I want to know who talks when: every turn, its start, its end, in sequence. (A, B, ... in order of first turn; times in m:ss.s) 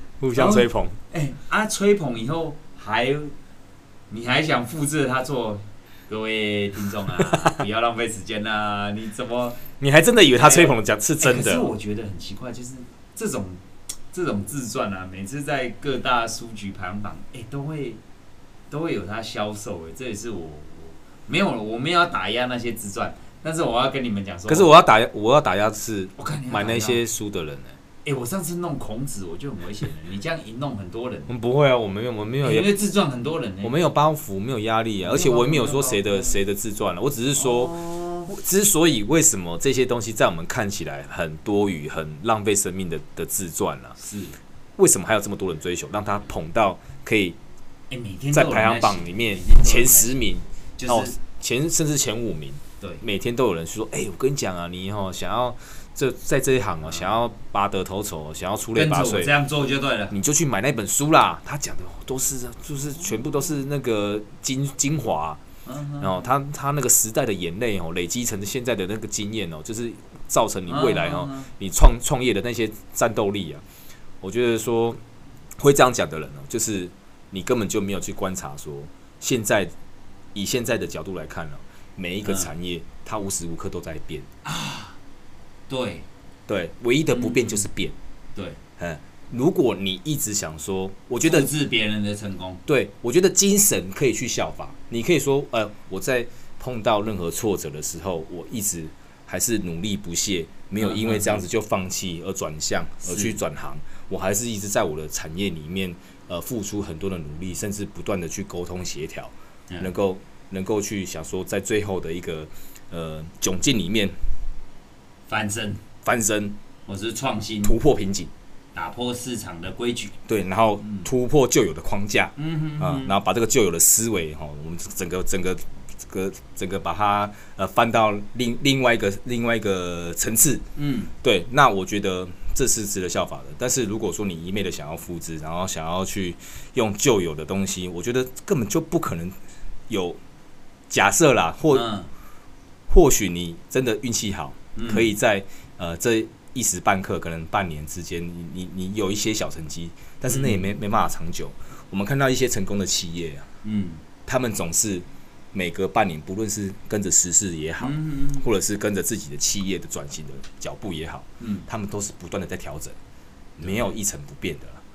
0:00.2-0:01.0 A
0:00.3-0:03.3 B
0:04.1-0:09.7 B
0:09.8-0:11.7 A
0:10.4-0:18.0 B
0:18.7-0:24.7 B
0:24.5-0:27.8 A
0:26.2-0:27.0 B
0:28.0-0:31.3 B
0:31.3-0:32.7 A
0:32.4-0:33.7 B
0:33.6-0:44.0 A
0:35.0-0:36.4 B
0:37.4-0:38.3 B
0:44.0-0:44.4 B
0:44.8-0:47.4 A
0:47.9-0:50.2 B
0:48.3-0:59.3 A
0:50.8-0:51.2 B
0:56.8-0:57.1 B
0:58.7-1:00.1 B
1:00.1-1:05.4 A
1:05.6-1:06.2 B
1:06.0-1:13.6 A
1:10.7-1:11.5 B
1:14.2-1:15.0 A
1:15.6-1:19.7 A
1:20.3-1:24.3 A
1:22.2-1:22.5 B
1:24.4-1:25.0 B
1:25.7-1:26.0 B
1:26.5-1:27.9 A
1:27.1-1:27.6 B
1:28.8-1:31.5 A
1:31.2-1:32.6 B
1:32.7-1:54.2 A
1:40.8-1:41.4 B
1:43.0-1:43.4 B
1:55.3-1:55.8 B
1:56.0-1:56.6 A
1:56.9-1:57.8 B
1:57.6-1:58.3 A
1:58.7-2:00.2 B
2:00.3-2:10.6 A
2:00.8-2:01.1 B
2:02.4-2:03.1 B
2:10.8-2:11.1 B
2:11.2-2:19.4 A
2:19.9-2:20.2 A
2:20.9-2:21.9 A
2:21.7-2:22.1 B
2:22.9-2:33.4 A
2:24.7-2:25.1 B
2:30.3-2:30.7 B
2:33.6-2:34.0 B
2:34.2-2:43.0 A
2:37.8-2:38.5 B
2:41.4-2:41.7 B
2:43.6-2:43.9 B
2:43.6-2:44.8 A